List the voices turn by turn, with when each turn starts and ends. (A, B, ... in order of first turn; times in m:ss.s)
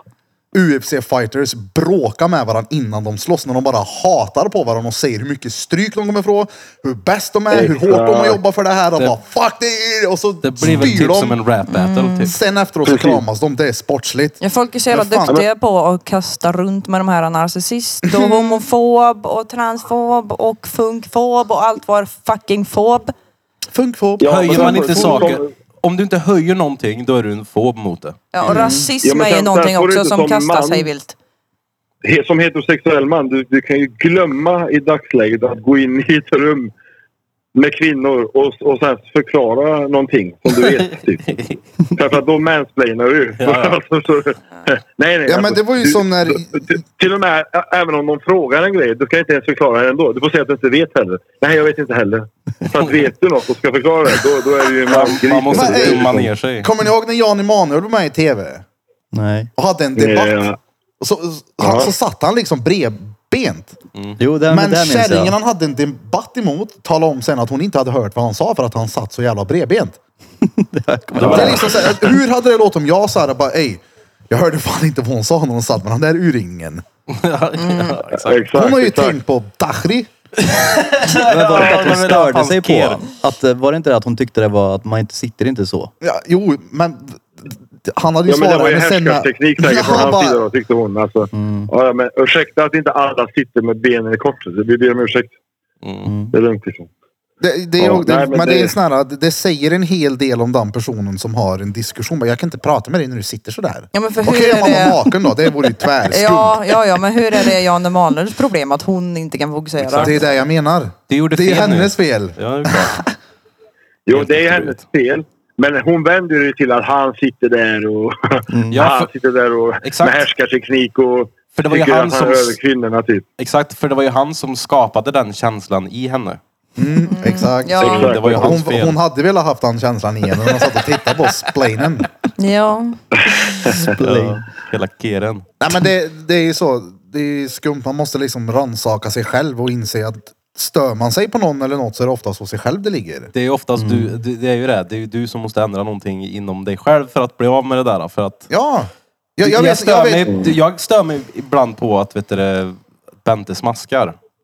0:00.5-0:11.4 A
0:07.5-0:08.4 B
0:10.4-0:12.3 C
0:11.7-0:12.3 D
0:12.2-0:14.4 A
0:12.8-0:13.2 B
0:14.4-0:23.1 D
0:14.9-0:15.4 A
0:18.0-0:18.6 A
0:23.7-0:25.3 A
0:24.2-0:25.5 B
0:24.2-0:28.2 C
0:28.3-0:31.1 D
0:28.4-0:28.9 A
0:28.5-0:28.8 E
0:29.0-0:30.9 B
0:32.0-0:36.7 B
0:37.5-0:41.3 B
0:40.6-0:41.6 C
0:41.9-0:56.3 B
0:43.4-0:43.8 C
0:45.3-0:46.7 A
0:54.8-0:56.7 C
0:55.5-0:58.6 A
0:59.1-0:59.5 E
0:59.6-1:00.5 A
1:00.0-1:00.6 B
1:01.0-1:03.8 A
1:01.6-1:01.9 B
1:04.2-1:05.3 E
1:04.5-1:10.0 A
1:10.4-1:12.1 E
1:11.2-1:11.7 C
1:11.2-1:16.8 A
1:17.1-1:18.4 C
1:17.6-1:18.0 D
1:18.1-1:19.2 B
1:18.5-1:20.1 A
1:20.5-1:23.1 C
1:21.1-1:25.9 E
1:26.0-1:30.4 A
1:28.3-1:35.3 B
1:31.3-1:31.7 E
1:35.8-1:36.1 C
1:36.0-1:36.3 E
1:36.3-1:36.9 B
1:37.4-1:46.8 A
1:37.8-1:38.7 B
1:43.9-1:45.1 D
1:46.1-1:50.2 D
1:49.8-1:50.1 C
1:50.0-1:53.0 A
1:51.1-1:53.0 C
1:54.0-2:03.3 B
1:54.1-1:54.8 C
1:58.5-1:58.8 E
1:58.7-1:59.1 C
1:59.8-2:00.3 C
2:01.5-2:02.6 C
2:03.4-2:06.4 C
2:06.8-2:12.1 A
2:07.0-2:08.1 D
2:07.8-2:08.6 B
2:07.8-2:09.0 C
2:12.4-2:13.0 D
2:13.2-2:13.9 B
2:13.7-2:14.5 E
2:13.9-2:15.4 C
2:15.6-2:23.3 A
2:23.3-2:28.5 C
2:23.8-2:24.2 E
2:28.5-2:30.3 A
2:29.4-2:34.2 C
2:30.3-2:30.5 B